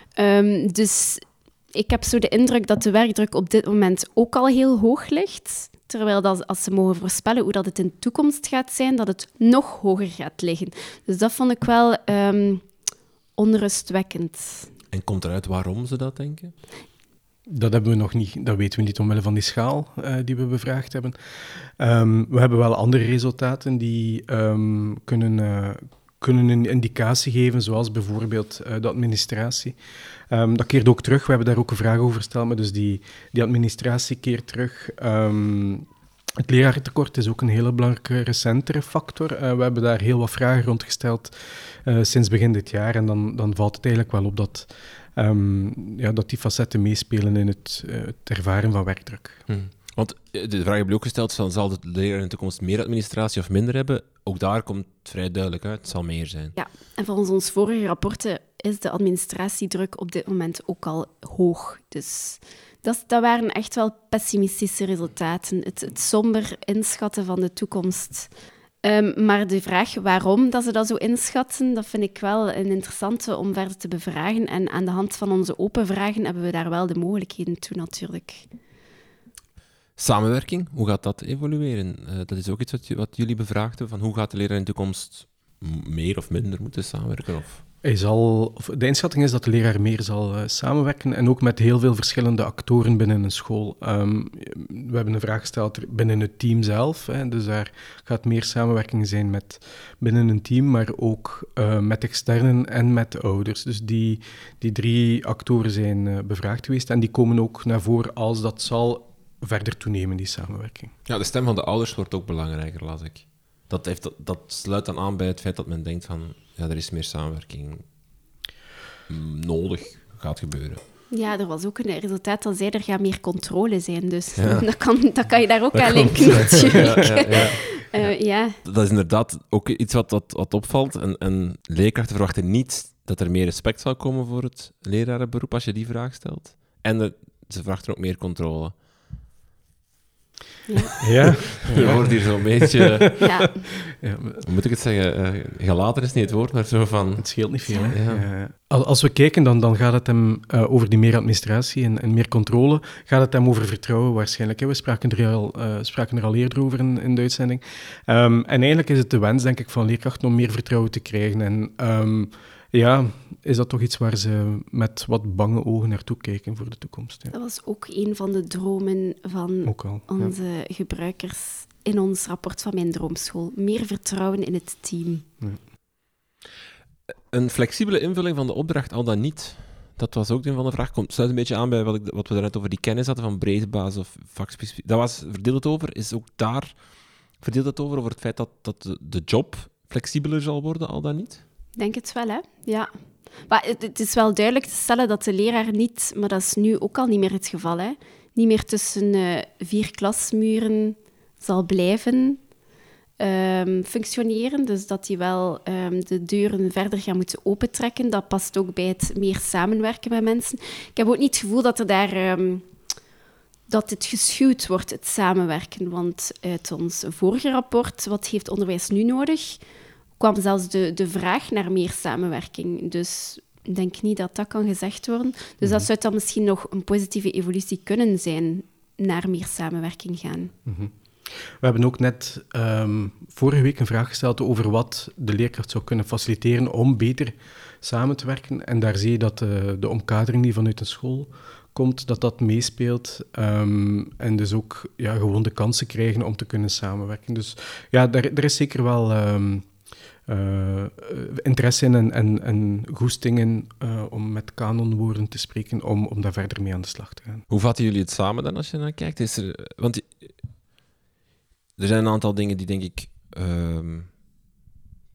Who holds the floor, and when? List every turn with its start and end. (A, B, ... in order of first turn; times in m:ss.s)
0:00.2-0:12.7 A
0:13.4-0:14.7 A
0:14.9-0:16.6 B
0:17.5-0:29.8 C
0:30.3-0:35.9 C
0:36.4-0:49.4 C
0:49.5-0:56.6 B
0:56.6-1:08.3 A
1:08.8-1:18.5 A
1:20.0-1:27.6 B
1:27.8-1:50.9 C
1:51.1-1:57.8 B
1:59.1-2:00.8 B
2:01.1-2:08.6 A
2:04.4-2:04.7 B
2:05.7-2:18.8 B
2:06.8-2:07.4 C
2:20.7-2:21.0 A
2:21.0-2:23.1 C
2:21.0-2:23.2 B
2:23.2-2:23.7 A
2:24.0-2:24.4 C
2:24.4-2:28.3 B
2:27.2-2:47.3 C
2:27.7-2:27.9 A
2:47.3-2:55.3 A
2:49.6-2:50.3 C
2:57.3-3:06.8 B
3:07.4-3:11.4 B
3:11.8-3:12.9 A
3:13.4-3:22.4 A
3:23.2-3:32.7 A
3:33.7-3:39.6 A
3:40.2-3:50.5 A
3:45.6-3:45.9 C
3:50.6-4:09.7 C
4:10.3-4:17.4 C
4:17.5-4:20.4 B
4:21.8-4:24.1 B